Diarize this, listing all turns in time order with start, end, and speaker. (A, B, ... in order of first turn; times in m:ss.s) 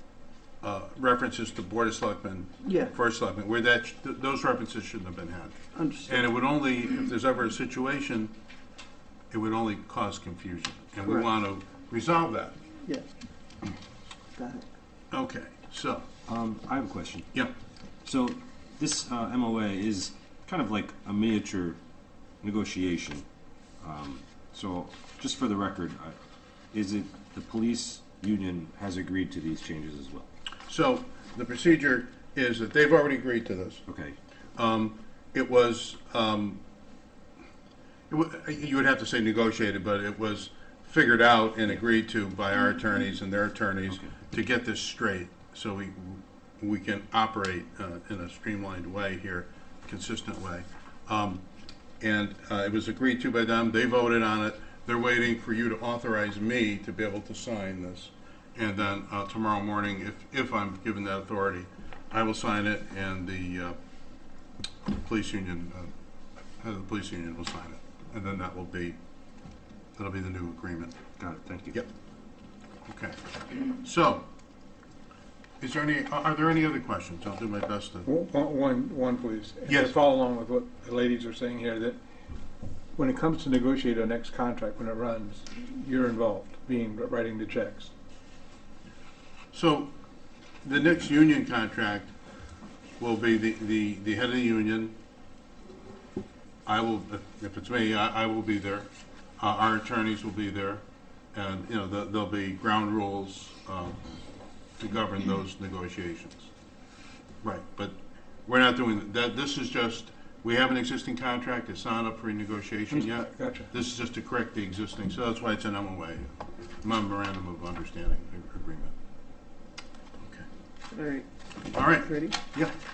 0:00.6-0:05.6 A
0:02.6-0:02.9 B
0:05.7-0:06.2 B
0:06.1-0:08.3 A
0:09.3-0:12.5 A
0:14.4-0:14.6 B
0:15.1-0:16.0 A
0:16.3-0:17.3 C
0:18.0-0:21.8 C
0:22.4-0:23.2 C
0:23.8-0:26.2 C
0:26.7-0:30.3 C
0:30.7-0:33.8 A
0:33.9-0:34.2 C
0:34.6-0:36.6 A
0:38.1-0:51.4 A
0:52.0-1:03.8 A
1:04.9-1:05.9 A
1:06.6-1:09.0 A
1:10.0-1:10.9 A
1:11.2-1:11.8 C
1:12.9-1:14.2 A
1:15.6-1:18.1 A
1:18.0-1:22.0 D
1:19.6-1:19.9 A
1:23.0-1:27.9 D
1:29.5-1:29.9 A
1:30.6-1:32.1 A
1:33.0-1:34.9 A
1:36.6-1:38.9 A
1:39.4-1:40.8 A
1:41.3-1:44.0 A
1:44.8-1:46.5 A
1:47.4-1:58.9 A
1:52.9-1:53.7 D
2:00.9-2:01.2 B
2:01.7-2:02.7 A
2:01.8-2:02.4 B